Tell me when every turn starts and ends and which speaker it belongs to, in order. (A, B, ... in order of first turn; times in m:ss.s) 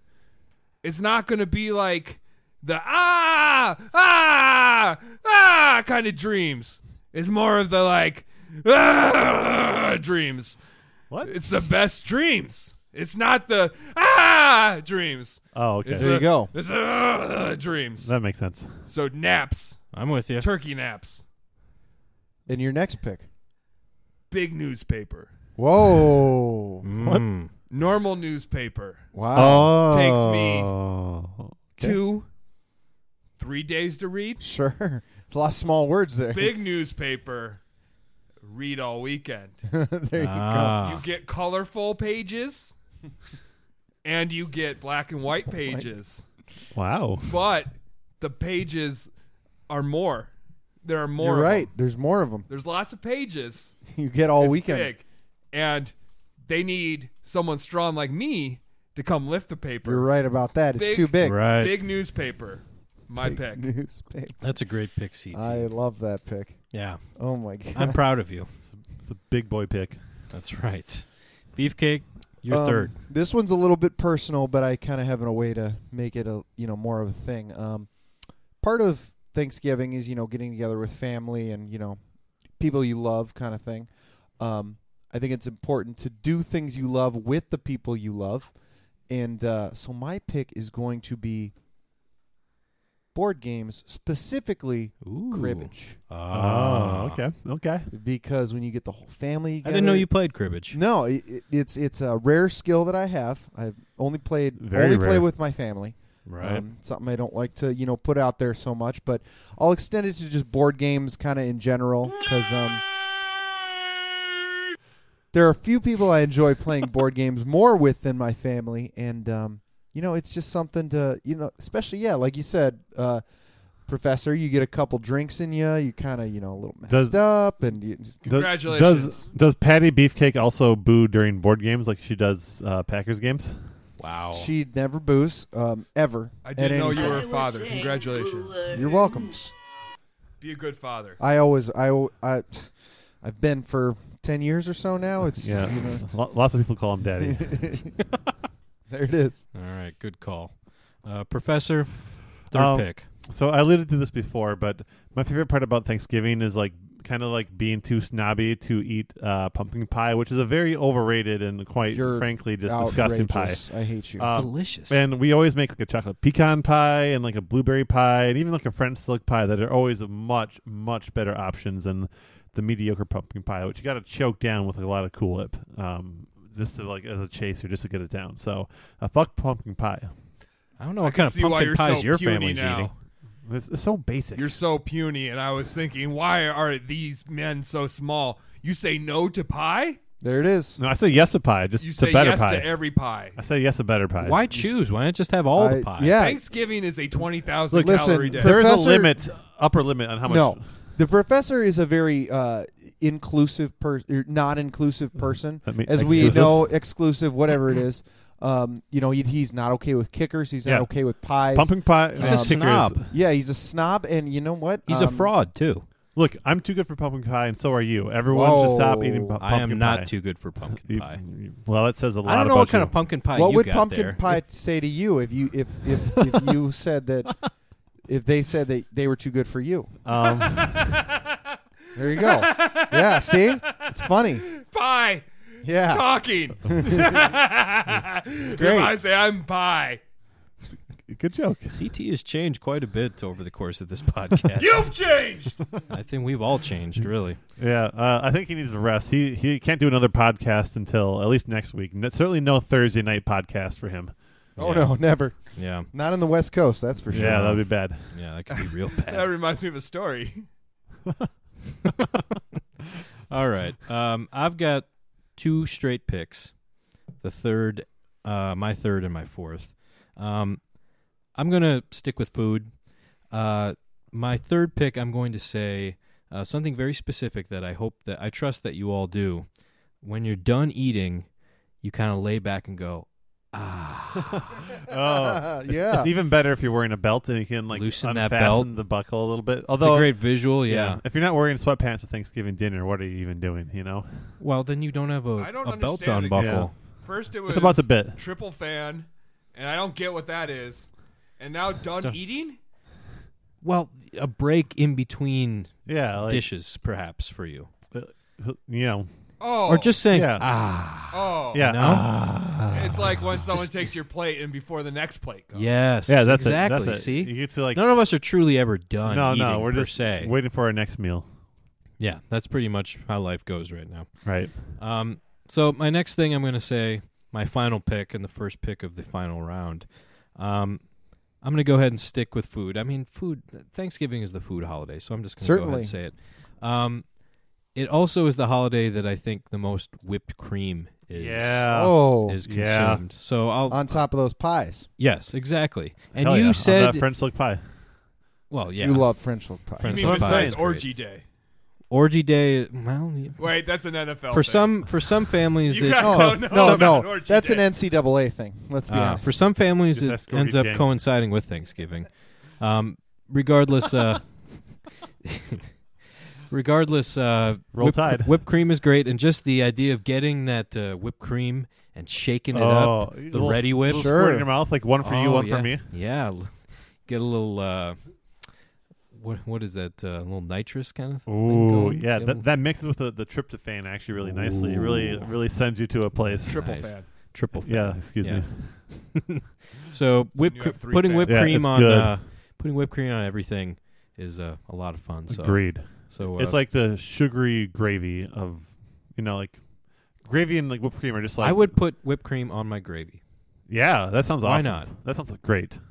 0:00.8-0:10.6 A
0:11.2-0:18.1 A
0:15.6-0:16.2 B
0:16.0-0:16.5 C
0:18.0-0:18.7 B
0:18.9-0:19.9 A
0:19.9-0:20.5 D
0:20.4-0:21.2 A
0:22.5-0:23.3 C
0:24.3-0:25.3 A
0:25.6-0:26.8 C
0:26.8-0:27.5 D
0:27.7-0:29.1 A
0:29.1-0:29.8 C
0:29.4-0:32.0 B
0:29.8-0:30.7 A
0:31.8-0:32.3 A
0:33.4-0:34.4 A
0:34.4-0:36.6 C
0:36.3-0:37.6 A
0:38.4-0:39.6 A
0:39.7-0:40.9 C
0:40.2-0:41.0 D
0:40.8-0:42.8 A
0:44.0-0:46.2 A
0:46.8-0:47.3 B
0:47.2-0:49.1 A
0:49.7-0:50.3 A
0:50.8-0:51.7 A
0:51.2-0:52.5 C
0:52.5-0:53.8 A
0:53.9-0:54.9 C
0:54.4-0:55.9 A
0:56.5-1:00.1 A
0:59.8-1:01.4 C
1:00.7-1:03.7 A
1:01.2-1:01.8 D
1:03.2-1:04.6 C
1:04.4-1:05.7 D
1:05.3-1:08.0 C
1:06.7-1:07.0 D
1:07.7-1:08.5 D
1:09.0-1:10.0 B
1:10.3-1:13.0 D
1:12.5-1:17.9 C
1:18.6-1:22.0 C
1:22.6-1:28.5 C
1:29.1-1:31.5 C
1:33.1-1:36.0 C
1:35.0-1:37.2 D
1:36.3-1:37.9 B
1:37.9-1:40.1 C
1:39.6-1:40.8 D
1:40.6-1:52.8 C
1:44.6-1:45.3 B
1:46.3-1:46.6 D
1:55.3-2:03.2 C
2:03.8-2:08.2 C
2:06.9-2:07.2 B
2:08.2-2:09.3 A
2:08.3-2:13.7 B
2:14.0-2:14.5 D
2:14.0-2:17.3 C
2:16.4-2:18.8 A
2:18.7-2:19.4 C
2:20.4-2:21.2 A
2:21.2-2:26.1 C
2:25.4-2:27.9 B
2:27.2-2:27.9 C
2:28.9-2:29.5 C
2:29.5-2:33.1 D
2:32.5-2:43.6 B
2:41.9-2:44.3 C
2:44.2-3:00.1 B
2:44.2-2:45.0 D
3:00.8-3:02.9 D
3:01.0-3:02.9 A
3:03.4-3:04.6 B
3:04.4-3:10.0 A
3:10.2-3:10.8 C
3:10.8-3:12.8 B
3:11.8-3:13.4 A
3:13.4-3:14.4 B
3:14.2-3:16.2 D
3:15.6-3:16.4 C
3:16.2-3:18.6 A
3:17.7-3:19.2 C
3:17.7-3:20.6 B
3:20.2-3:35.3 C
3:25.6-3:26.8 B
3:26.0-3:26.6 D
3:30.6-3:33.1 B
3:32.2-3:33.0 D
3:34.9-3:35.9 D
3:36.2-3:43.0 B
3:38.3-3:39.4 C
3:39.4-3:41.2 D
3:42.2-3:44.2 D
3:43.3-3:47.4 C
3:48.0-3:49.9 C
3:50.0-3:51.0 B
3:50.3-3:51.2 A
3:51.9-3:54.5 C
3:52.2-4:00.0 A
3:55.6-3:57.3 C
3:58.5-3:59.0 C
4:01.1-4:01.8 B
4:01.7-4:04.9 D
4:04.6-4:05.6 A
4:05.9-4:07.4 D
4:07.6-4:14.2 B
4:14.6-4:17.6 C
4:14.6-4:15.9 D
4:17.1-4:18.2 B
4:17.1-4:19.3 D
4:19.0-4:20.5 A
4:23.3-4:26.6 D
4:27.2-4:30.7 D
4:31.3-4:39.5 D
4:40.0-4:41.3 D
4:41.8-4:44.5 D
4:44.3-4:54.3 B
4:44.9-4:46.1 C
4:47.7-4:48.7 D
4:49.8-4:51.0 D
4:54.4-4:56.7 D
4:55.4-5:02.6 A
4:56.4-4:56.7 B
4:57.5-4:58.2 B
5:03.6-5:07.7 D
5:05.9-5:06.4 B
5:07.9-5:09.1 B
5:09.4-5:10.0 A
5:09.7-5:12.1 D
5:10.1-5:10.5 B
5:11.1-5:11.6 A
5:11.5-5:13.6 B
5:12.7-5:15.8 A
5:15.5-5:20.3 D
5:16.1-5:18.0 B
5:19.1-5:21.3 B
5:22.0-5:37.1 D
5:24.2-5:24.6 B
5:35.4-5:36.0 C
5:37.7-5:41.7 D
5:41.1-5:43.0 B
5:41.7-5:42.4 C
5:42.3-5:44.1 D
5:43.7-5:44.9 C
5:45.0-5:47.1 D
5:46.2-5:47.6 B
5:48.5-5:49.1 D
5:48.7-5:50.1 C
5:49.8-5:50.8 D
5:49.8-5:51.2 A
5:50.0-5:50.8 B
5:51.9-5:53.6 D
5:53.4-5:55.0 A
5:54.3-5:56.9 D
5:55.7-5:57.7 A
5:56.0-5:59.4 C
5:58.9-6:05.6 D
5:59.9-6:00.9 B
6:06.5-6:14.2 D
6:07.7-6:08.4 B
6:12.5-6:15.9 B
6:13.9-6:14.5 C
6:15.0-6:18.4 D
6:19.1-6:22.4 D
6:21.3-6:26.6 B
6:24.2-6:25.3 D
6:26.4-6:27.1 A
6:26.5-6:36.6 D
6:27.2-6:29.1 B
6:30.4-6:31.6 A
6:31.3-6:32.2 B
6:35.3-6:39.6 B
6:40.2-6:41.8 B
6:41.4-6:43.2 D
6:43.7-6:45.8 B
6:44.4-6:44.9 D